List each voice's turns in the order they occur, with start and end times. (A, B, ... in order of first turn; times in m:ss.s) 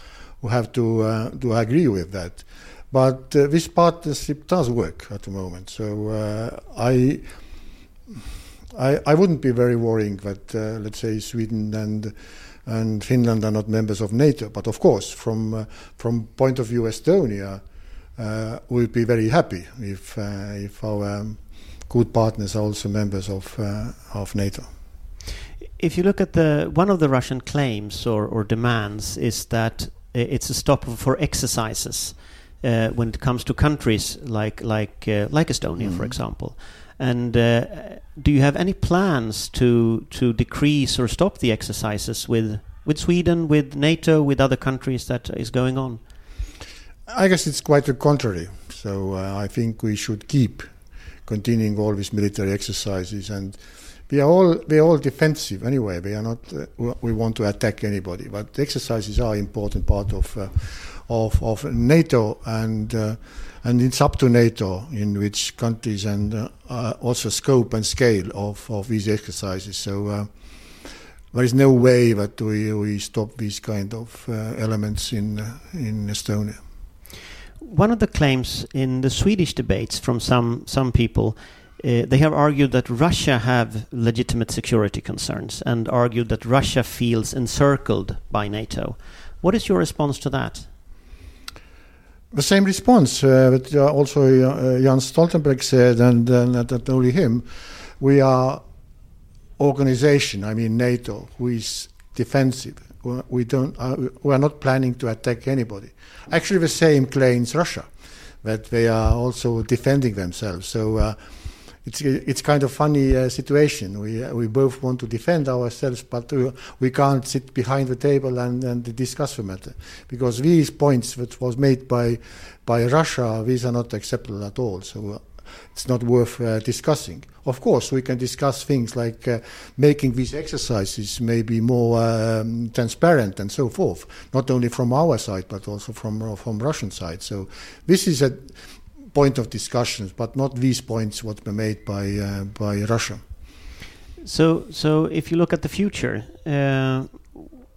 0:00.4-0:07.4 A
0:08.7-0:17.6 A
0:18.2-0:24.7 A
0:25.8-0:46.0 B
0:35.8-0:36.1 A
0:47.1-0:50.7 A
0:51.2-1:10.3 A
1:11.3-1:16.6 A
1:17.6-1:30.7 B
1:32.3-1:38.6 A
1:39.6-2:23.2 A
2:24.3-2:27.3 B